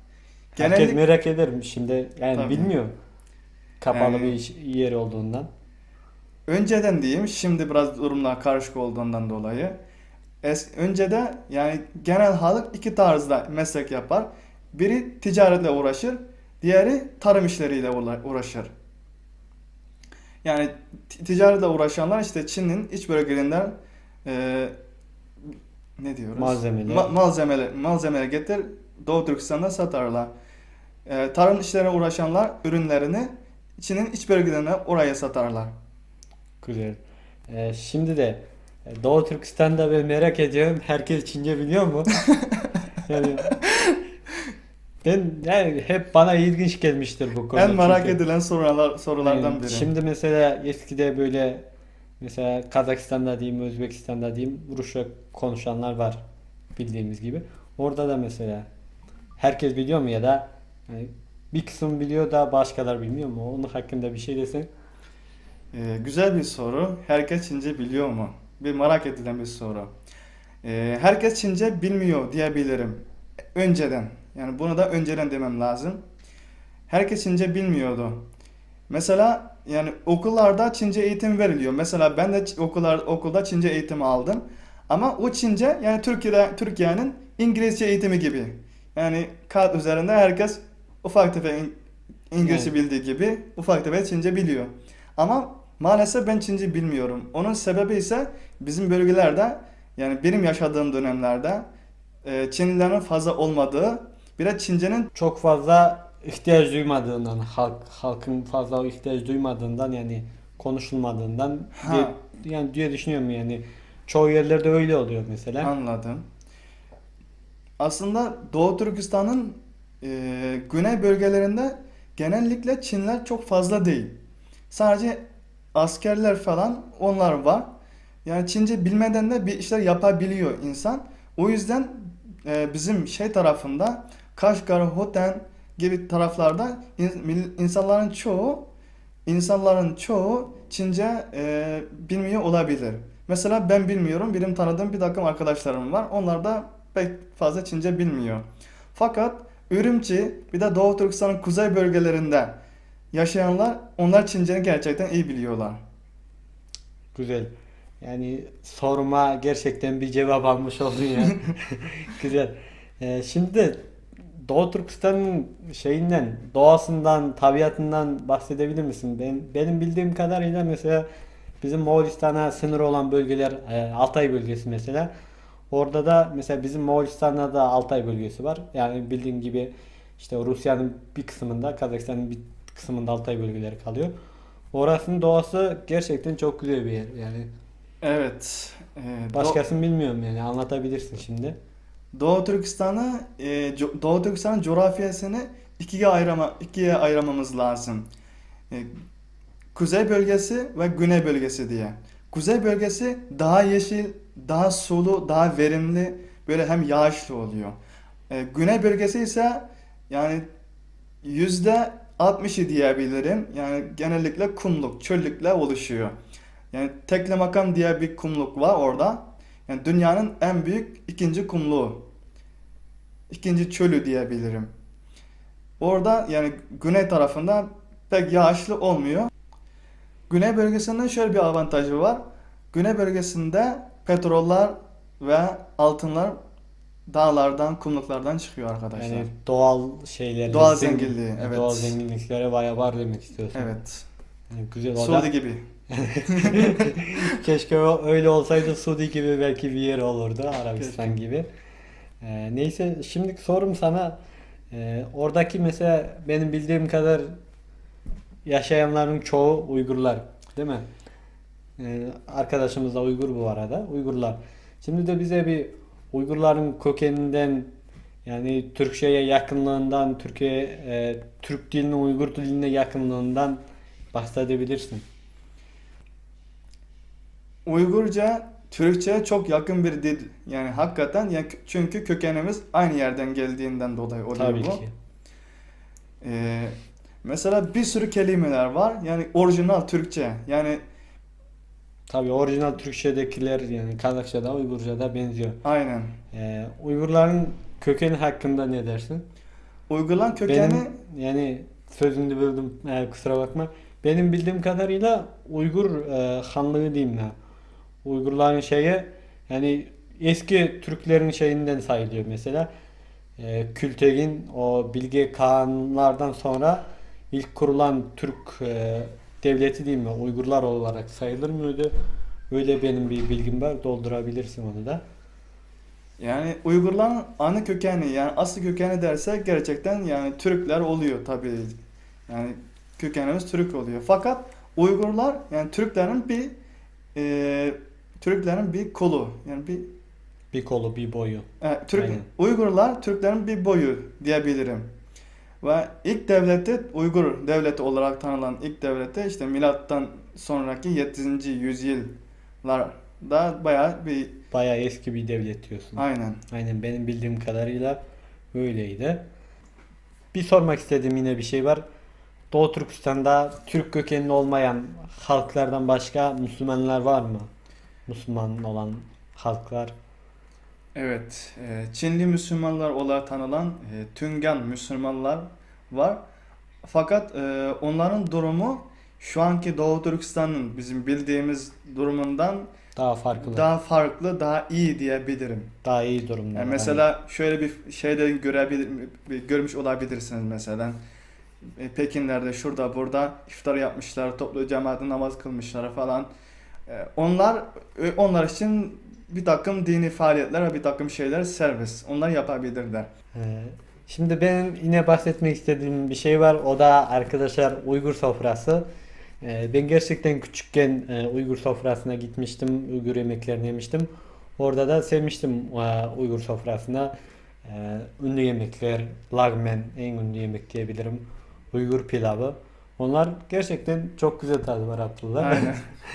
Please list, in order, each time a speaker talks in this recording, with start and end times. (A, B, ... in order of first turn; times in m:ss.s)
0:00.5-0:01.0 A
0:00.6-0:02.9 B
0:02.3-0:02.7 A
0:03.8-0:05.5 B
0:03.9-0:04.4 A
0:06.5-0:09.8 A
0:10.4-0:18.7 A
0:20.4-0:24.7 A
0:26.0-0:30.3 A
0:26.4-0:27.1 B
0:31.0-0:35.7 A
0:36.6-0:42.2 B
0:43.0-0:43.6 B
0:43.5-0:43.9 A
0:45.0-0:48.2 B
0:47.5-0:49.9 A
0:49.2-0:51.6 B
0:52.2-0:56.2 B
0:56.7-0:58.7 B
0:59.4-1:04.7 B
1:05.7-1:09.9 A
1:10.6-1:13.0 A
1:13.5-1:16.0 A
1:16.9-1:18.2 A
1:18.9-1:31.8 A
1:32.3-1:41.7 A
1:32.4-1:32.7 B
1:42.2-1:45.1 A
1:45.1-1:55.7 B
1:51.7-1:52.1 A
1:55.6-1:56.2 A
1:57.8-2:04.2 A
2:04.7-2:05.2 A
2:05.7-2:07.7 A
2:08.2-2:18.7 A
2:19.2-2:32.6 A
2:33.1-2:35.8 A
2:37.1-2:43.9 B
2:44.4-2:51.1 B
2:51.6-2:55.1 B
2:55.7-3:04.1 B
3:04.7-3:07.5 B
3:08.0-3:09.6 A
3:09.3-3:11.6 B
3:12.1-3:18.1 A
3:19.7-3:27.8 A
3:28.3-3:30.4 A
3:31.2-3:36.1 A
3:36.7-3:42.0 A
3:43.3-3:44.7 A
3:45.8-3:49.3 A
3:50.3-3:56.4 A
3:57.1-3:59.3 A
3:59.0-4:03.7 B
4:00.5-4:02.0 A
4:03.5-4:04.1 A
4:04.5-4:05.3 B
4:05.0-4:05.6 A
4:05.9-4:11.5 B
4:06.2-4:07.4 A
4:10.8-4:11.2 A
4:12.2-4:14.2 B
4:14.7-4:17.3 B
4:18.4-4:20.8 B
4:21.8-4:27.7 B
4:28.2-4:33.6 B
4:34.1-4:35.0 B
4:37.6-4:44.8 A
4:44.3-4:44.9 B
4:46.2-4:50.8 A
4:52.1-4:55.6 B
4:55.6-4:56.2 A
4:56.3-4:59.2 B
4:59.9-5:01.0 A
5:00.5-5:07.3 B
5:08.0-5:12.7 B
5:13.4-5:21.9 B
5:22.5-5:25.0 B
5:26.2-5:31.8 A
5:32.3-5:36.5 A
5:37.1-5:39.9 A
5:40.5-5:42.2 B
5:41.6-5:44.9 A
5:45.6-5:54.4 A
5:54.5-5:58.0 B
5:56.0-5:56.4 A
5:58.5-5:59.2 B
6:00.3-6:01.8 B
6:02.5-6:07.5 B
6:08.1-6:09.9 B
6:10.9-6:16.2 A
6:16.8-6:22.7 A
6:23.0-6:23.6 B
6:23.4-6:25.7 A
6:25.8-6:27.0 B
6:26.5-6:31.0 A
6:31.8-6:36.3 A
6:36.9-6:43.1 A
6:43.3-6:48.8 B
6:49.4-6:57.1 B
6:57.6-7:05.7 B
7:05.4-7:05.8 A